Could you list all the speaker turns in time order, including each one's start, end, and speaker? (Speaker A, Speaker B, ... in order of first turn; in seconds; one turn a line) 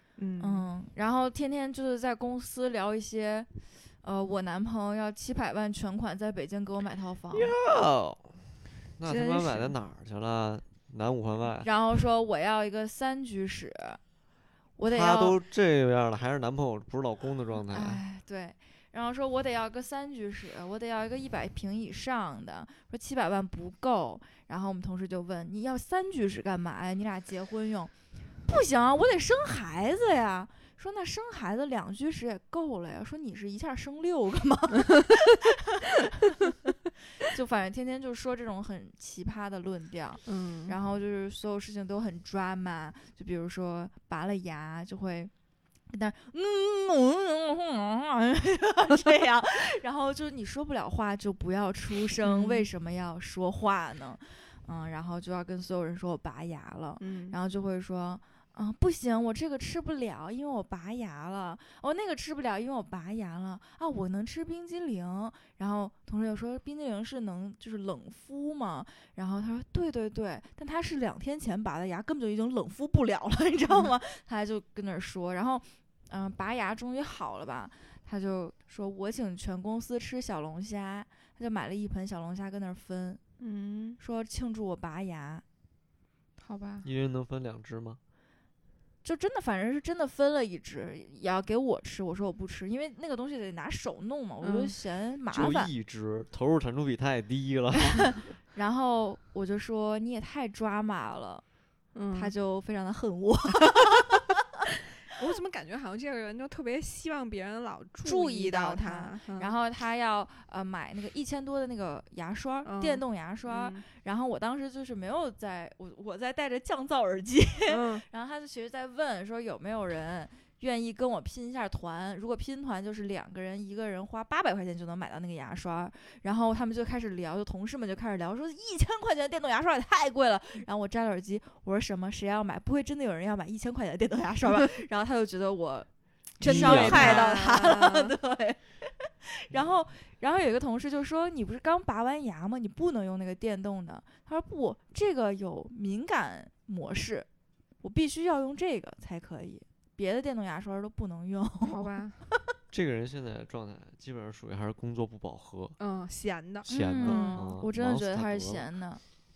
Speaker A: 0.2-0.7
Speaker B: 0.4-3.5
Speaker B: 4.0-7.5
Speaker C: 7.3-11.7
Speaker A: 9.0-9.7
Speaker B: 11.6-14.0
Speaker B: 14.8-15.4
Speaker C: 14.8-18.0
Speaker B: 17.7-27.9
Speaker B: 28.4-36.6
Speaker B: 37.2-45.3
Speaker A: 40.3-40.8
Speaker B: 45.9-83.2
Speaker A: 52.2-52.7
Speaker A: 57.0-57.4
Speaker A: 83.4-84.0
Speaker B: 84.0-85.4
Speaker A: 86.4-86.9
Speaker C: 86.8-88.0
Speaker B: 89.0-95.7
Speaker A: 94.4-94.7
Speaker C: 95.3-98.2
Speaker B: 98.1-101.4
Speaker A: 101.9-102.3
Speaker B: 102.1-104.2
Speaker A: 105.1-109.5
Speaker B: 108.1-147.3
Speaker A: 112.6-113.8
Speaker A: 117.7-118.0
Speaker A: 136.4-138.1
Speaker C: 136.4-137.4
Speaker B: 147.8-152.3
Speaker A: 151.7-152.2
Speaker C: 152.7-155.8
Speaker A: 155.8-157.5
Speaker C: 156.7-158.6
Speaker B: 156.7-159.0